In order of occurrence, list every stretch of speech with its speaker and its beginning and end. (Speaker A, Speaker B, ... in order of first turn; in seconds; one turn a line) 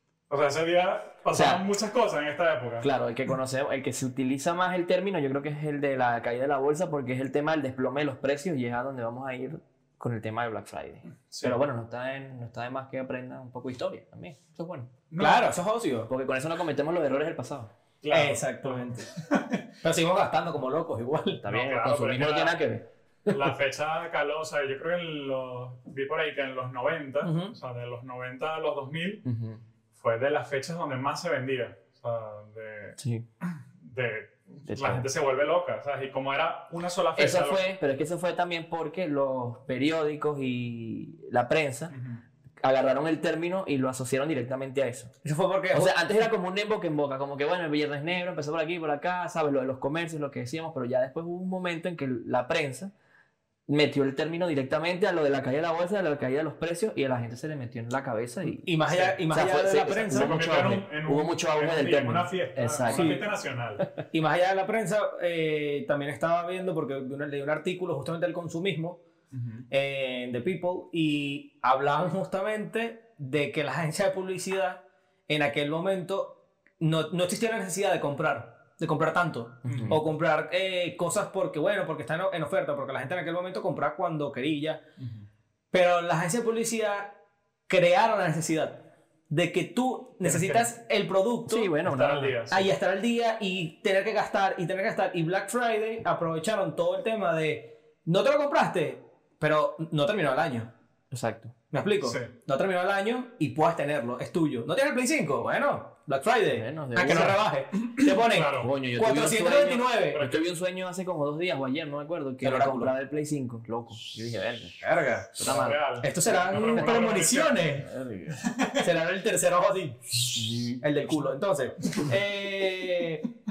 Speaker A: 0.3-2.9
Speaker B: 1.3-1.7
Speaker B: 2.8-14.9
Speaker A: 11.3-11.6
Speaker A: 15.1-15.5
Speaker C: 15.2-16.1
Speaker B: 16.1-17.7
Speaker A: 18.0-19.7
Speaker C: 18.1-19.1
Speaker C: 19.8-21.4
Speaker B: 21.4-23.5
Speaker A: 21.4-22.6
Speaker A: 23.3-29.2
Speaker C: 27.2-27.5
Speaker B: 29.2-29.6
Speaker A: 29.9-37.6
Speaker B: 33.0-33.2
Speaker B: 34.7-35.0
Speaker B: 37.1-41.9
Speaker A: 41.9-42.2
Speaker B: 42.6-45.1
Speaker C: 45.2-45.9
Speaker B: 45.7-52.9
Speaker B: 53.7-63.2
Speaker C: 58.6-60.4
Speaker A: 58.9-59.2
Speaker A: 60.1-63.9
Speaker C: 62.9-63.2
Speaker C: 64.1-69.0
Speaker A: 69.3-69.6
Speaker C: 69.7-84.8
Speaker B: 79.7-80.0
Speaker A: 79.7-80.0
Speaker A: 85.0-85.2
Speaker C: 85.7-91.7
Speaker A: 90.2-90.7
Speaker B: 91.5-92.4
Speaker A: 91.8-92.7
Speaker C: 92.5-100.7
Speaker B: 101.1-101.5
Speaker C: 101.7-110.2
Speaker A: 102.0-102.3
Speaker B: 106.5-107.4
Speaker A: 107.8-108.7
Speaker B: 108.6-115.8
Speaker A: 110.1-110.4
Speaker C: 112.4-112.9
Speaker C: 114.8-118.0
Speaker A: 115.4-117.8
Speaker B: 117.9-118.4
Speaker A: 118.3-118.9
Speaker C: 118.8-123.2
Speaker B: 120.3-120.8